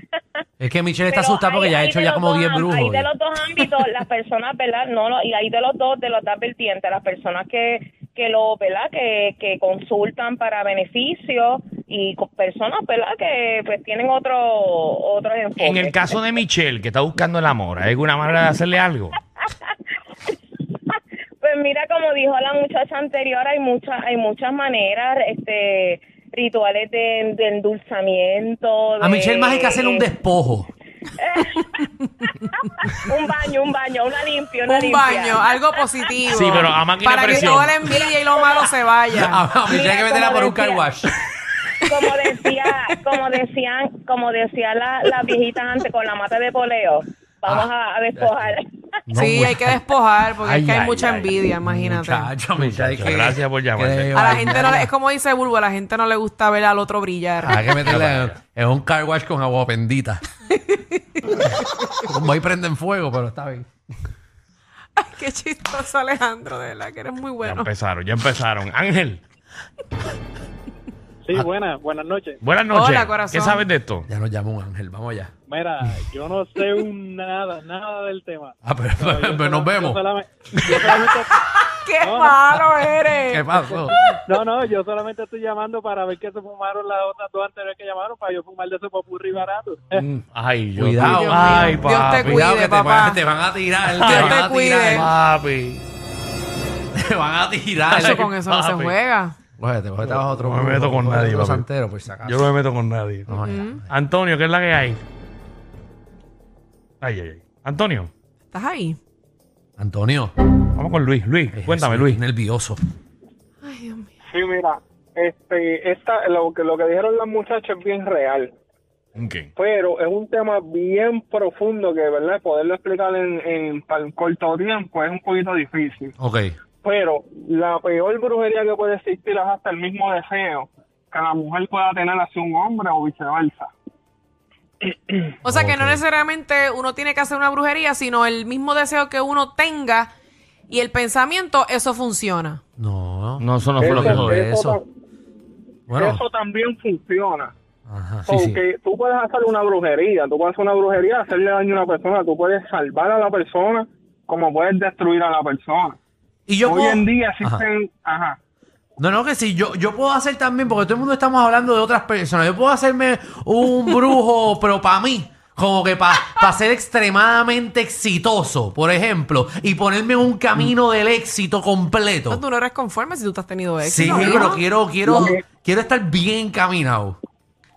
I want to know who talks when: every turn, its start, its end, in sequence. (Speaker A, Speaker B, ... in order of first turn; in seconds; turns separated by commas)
Speaker A: 0.6-3.1, Speaker B: 1.1-16.2, Speaker C: 15.6-19.2, Speaker B: 21.4-30.1, Speaker A: 29.0-30.7, Speaker B: 31.2-36.1, Speaker D: 34.7-39.3, Speaker C: 36.3-37.9, Speaker B: 37.2-40.9, Speaker A: 39.2-41.2, Speaker B: 41.8-48.8, Speaker A: 49.1-49.8, Speaker D: 49.2-52.3, Speaker C: 50.4-51.4, Speaker A: 51.6-54.9, Speaker C: 52.5-54.4, Speaker D: 54.1-57.6, Speaker A: 57.4-60.2, Speaker C: 57.8-58.4, Speaker A: 62.0-63.7, Speaker D: 65.0-67.6, Speaker C: 67.4-69.2, Speaker E: 71.2-72.4, Speaker C: 72.4-74.1, Speaker D: 72.7-73.6, Speaker A: 74.1-75.3, Speaker E: 75.5-81.4, Speaker A: 78.6-80.0, Speaker A: 80.5-80.8, Speaker D: 81.7-83.4, Speaker E: 81.9-83.1, Speaker A: 83.3-84.0, Speaker E: 83.6-90.0, Speaker C: 89.9-92.5, Speaker A: 90.8-95.1, Speaker D: 91.1-93.1, Speaker C: 93.9-95.8, Speaker D: 94.1-95.0, Speaker A: 96.9-98.3, Speaker C: 97.9-99.0, Speaker D: 97.9-99.3, Speaker A: 99.6-102.5, Speaker C: 100.0-101.7, Speaker C: 102.2-103.3, Speaker A: 103.3-103.8, Speaker D: 103.5-103.8, Speaker C: 103.9-105.0, Speaker C: 107.0-108.1, Speaker D: 108.5-109.0, Speaker A: 109.8-110.3, Speaker C: 110.7-112.2, Speaker A: 111.6-112.8, Speaker D: 113.6-114.1, Speaker F: 114.2-118.5, Speaker C: 119.2-119.5, Speaker F: 119.6-126.1, Speaker A: 126.2-126.5, Speaker F: 126.8-133.7, Speaker D: 135.4-140.1, Speaker A: 135.4-136.0, Speaker D: 140.7-142.6, Speaker A: 142.8-144.8, Speaker C: 143.4-144.4, Speaker F: 143.8-144.8, Speaker A: 145.9-146.2, Speaker F: 145.9-147.5, Speaker A: 147.9-148.6, Speaker F: 148.2-156.0, Speaker A: 156.5-157.6, Speaker F: 156.6-158.4, Speaker A: 159.0-172.4, Speaker D: 172.3-174.6, Speaker A: 173.8-177.2, Speaker F: 174.1-174.5, Speaker F: 175.1-175.4